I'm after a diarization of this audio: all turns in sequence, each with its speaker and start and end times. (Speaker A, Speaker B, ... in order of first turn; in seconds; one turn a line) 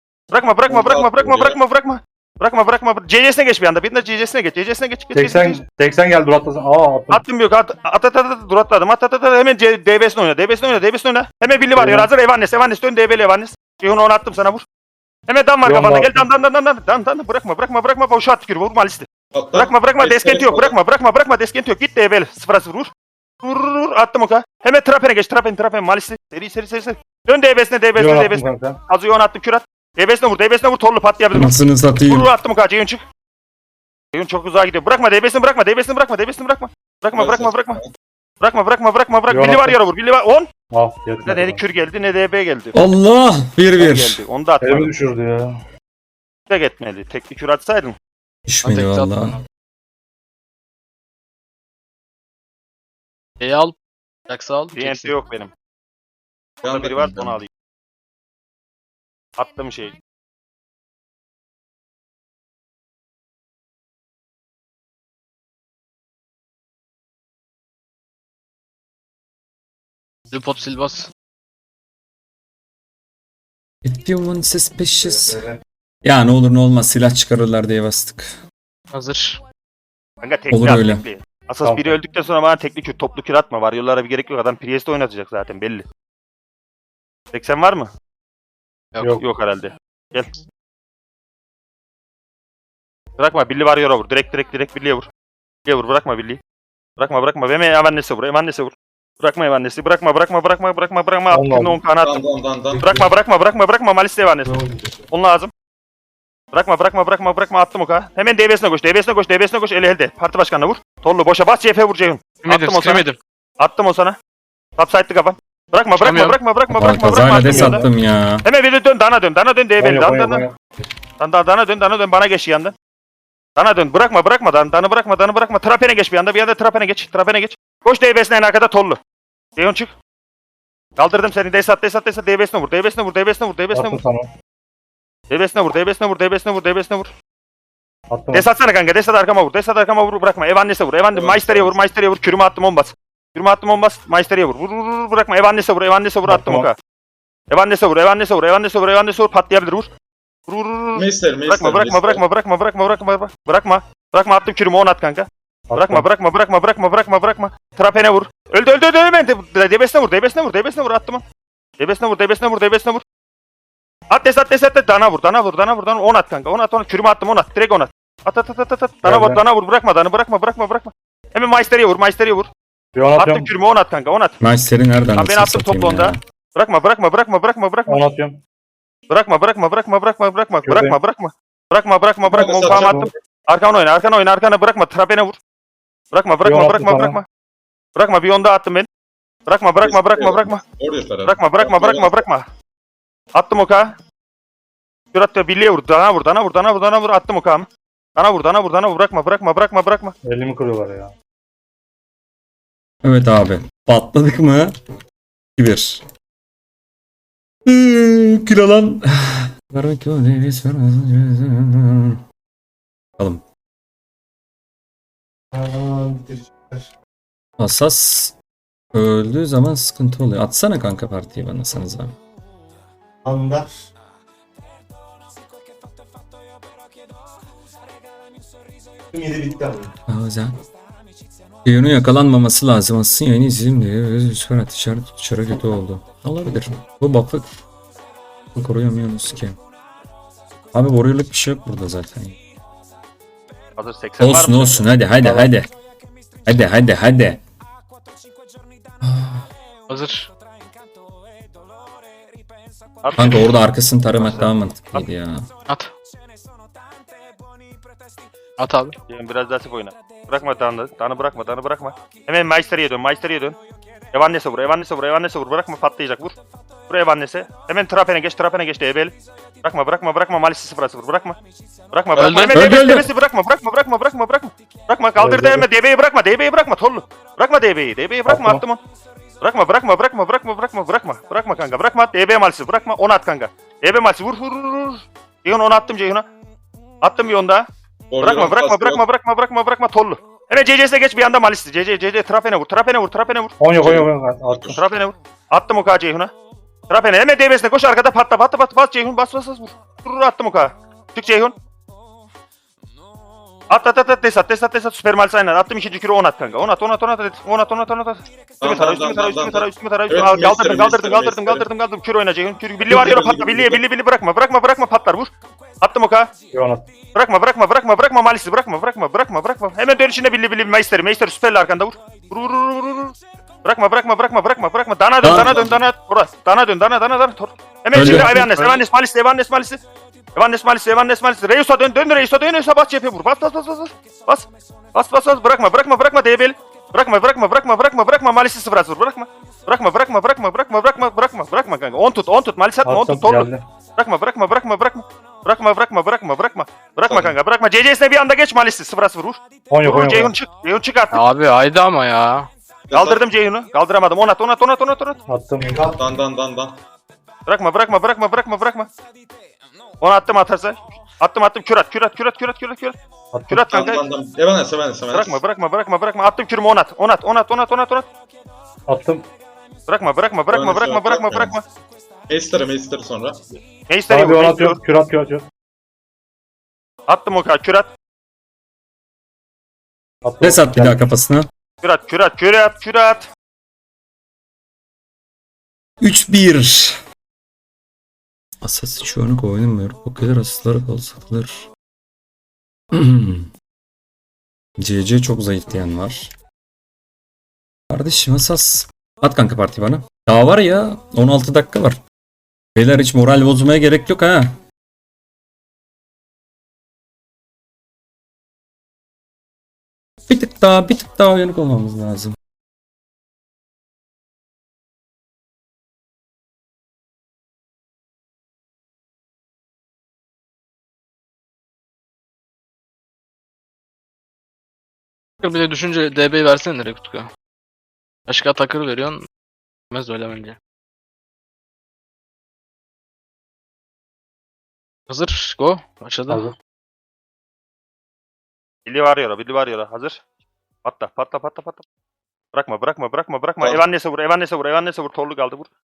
Speaker A: 0.3-5.6
Speaker B: 0.7-1.6
Speaker C: 5.1-7.2
Speaker A: 7.1-14.6
Speaker C: 11.8-12.1
Speaker A: 15.3-22.9
Speaker C: 15.7-16.2
Speaker B: 19.3-20.8
Speaker A: 23.4-33.0
Speaker C: 28.0-28.8
Speaker D: 31.3-32.3
Speaker A: 34.1-37.8
Speaker B: 37.2-37.9
Speaker A: 38.4-40.5
Speaker C: 39.3-39.8
Speaker C: 40.7-41.6
Speaker A: 41.2-42.8
Speaker D: 42.7-44.2
Speaker A: 43.8-44.9
Speaker C: 44.6-45.5
Speaker A: 46.5-47.9
Speaker D: 48.5-49.4
Speaker E: 48.6-49.4
Speaker E: 53.4-53.8
Speaker E: 54.3-55.1
Speaker A: 54.8-55.5
Speaker B: 56.6-57.4
Speaker A: 56.6-57.5
Speaker A: 59.4-60.0
Speaker E: 70.3-71.1
Speaker D: 73.8-75.4
Speaker F: 75.2-75.5
Speaker D: 76.0-78.3
Speaker E: 78.9-79.4
Speaker A: 80.2-85.8
Speaker D: 80.5-81.0
Speaker C: 81.6-82.0
Speaker A: 87.3-87.9
Speaker E: 88.9-89.2
Speaker A: 89.2-90.3
Speaker A: 93.2-95.0
Speaker A: 95.7-96.4
Speaker A: 97.0-102.2
Speaker C: 101.3-101.8
Speaker B: 102.0-103.0
Speaker F: 102.7-103.0
Speaker A: 102.8-105.5
Speaker F: 104.5-105.0
Speaker A: 106.5-113.0
Speaker E: 112.4-113.2
Speaker A: 113.6-114.2
Speaker A: 114.8-117.9
Speaker E: 116.0-116.4
Speaker D: 116.7-118.5
Speaker C: 117.5-117.9
Speaker A: 118.5-120.5
Speaker C: 119.8-120.5
Speaker A: 121.2-122.7
Speaker A: 123.6-129.0
Speaker A: 129.6-129.9
Speaker A: 131.0-134.0
Speaker C: 133.7-134.3
Speaker A: 135.3-137.1
Speaker C: 138.1-138.5
Speaker A: 138.3-146.8
Speaker B: 141.1-141.7
Speaker C: 146.3-146.7
Speaker A: 147.5-149.9
Speaker A: 150.5-161.2
Speaker B: 150.9-152.2
Speaker C: 155.7-156.1
Speaker A: 161.8-163.0
Speaker A: 164.1-172.5
Speaker C: 169.0-169.4
Speaker C: 172.9-173.5
Speaker A: 173.2-174.4
Speaker D: 174.4-176.2
Speaker A: 175.2-178.0
Speaker C: 177.9-178.4
Speaker A: 179.1-185.4
Speaker C: 180.7-181.0
Speaker B: 182.3-183.2
Speaker C: 182.7-183.1
Speaker A: 186.1-187.2
Speaker C: 186.4-187.2
Speaker A: 188.0-188.9
Speaker A: 189.5-190.6
Speaker B: 189.8-192.2
Speaker A: 191.2-192.5
Speaker A: 193.4-193.9
Speaker A: 195.1-200.1
Speaker C: 200.3-201.1
Speaker D: 203.0-204.8
Speaker D: 205.6-206.1
Speaker D: 207.7-212.2
Speaker D: 213.2-213.4
Speaker F: 215.5-216.9
Speaker D: 217.6-218.4
Speaker D: 218.9-222.2
Speaker F: 223.2-223.7
Speaker F: 229.1-229.9
Speaker D: 230.1-230.6
Speaker D: 231.7-237.4
Speaker D: 238.5-239.6
Speaker D: 240.7-242.4
Speaker A: 243.8-244.9
Speaker D: 244.2-245.7
Speaker C: 245.2-245.5
Speaker D: 246.5-247.4
Speaker D: 249.0-249.5
Speaker E: 249.9-250.3
Speaker A: 253.0-253.6
Speaker D: 253.1-255.5
Speaker A: 254.1-255.0
Speaker E: 258.6-259.0
Speaker A: 259.1-263.6
Speaker A: 264.1-266.4
Speaker A: 266.9-271.4
Speaker A: 271.9-278.8
Speaker E: 272.2-272.6
Speaker D: 272.5-273.1
Speaker C: 275.2-275.7
Speaker C: 278.3-278.6
Speaker A: 279.4-286.3
Speaker A: 287.0-287.7
Speaker B: 288.1-289.0
Speaker A: 288.2-293.5
Speaker C: 293.6-294.8
Speaker B: 293.8-294.8
Speaker A: 294.7-296.3
Speaker A: 296.9-301.6
Speaker A: 303.7-316.3
Speaker B: 308.6-311.7
Speaker B: 312.9-313.8
Speaker C: 316.5-316.9
Speaker A: 317.1-329.8
Speaker D: 325.2-325.6
Speaker D: 327.9-328.5
Speaker E: 328.0-328.8
Speaker A: 330.4-351.2
Speaker C: 342.9-343.6
Speaker B: 347.1-347.3
Speaker C: 349.7-350.3
Speaker E: 351.1-352.5
Speaker B: 352.9-353.3
Speaker A: 352.9-355.2
Speaker C: 355.3-355.9
Speaker F: 355.6-356.1
Speaker B: 356.0-356.8
Speaker A: 357.5-358.9
Speaker A: 360.0-363.0
Speaker C: 363.3-363.6
Speaker A: 363.5-364.1
Speaker B: 363.7-365.4
Speaker A: 365.1-368.1
Speaker C: 368.9-369.2
Speaker A: 369.9-371.6
Speaker B: 370.5-371.6
Speaker B: 372.3-373.4
Speaker A: 373.9-374.8
Speaker C: 374.1-375.5
Speaker A: 377.1-377.9
Speaker C: 380.2-381.0
Speaker D: 380.4-381.5
Speaker A: 381.8-383.3
Speaker D: 386.0-387.0
Speaker D: 388.6-391.7
Speaker D: 392.9-393.5
Speaker D: 394.8-396.3
Speaker D: 397.9-402.0
Speaker D: 402.8-404.6
Speaker D: 410.3-412.4
Speaker E: 425.4-427.3
Speaker E: 428.3-429.2
Speaker E: 429.9-430.6
Speaker E: 435.1-436.5
Speaker C: 436.3-436.6
Speaker A: 438.9-440.2
Speaker A: 440.9-441.9
Speaker A: 442.5-445.7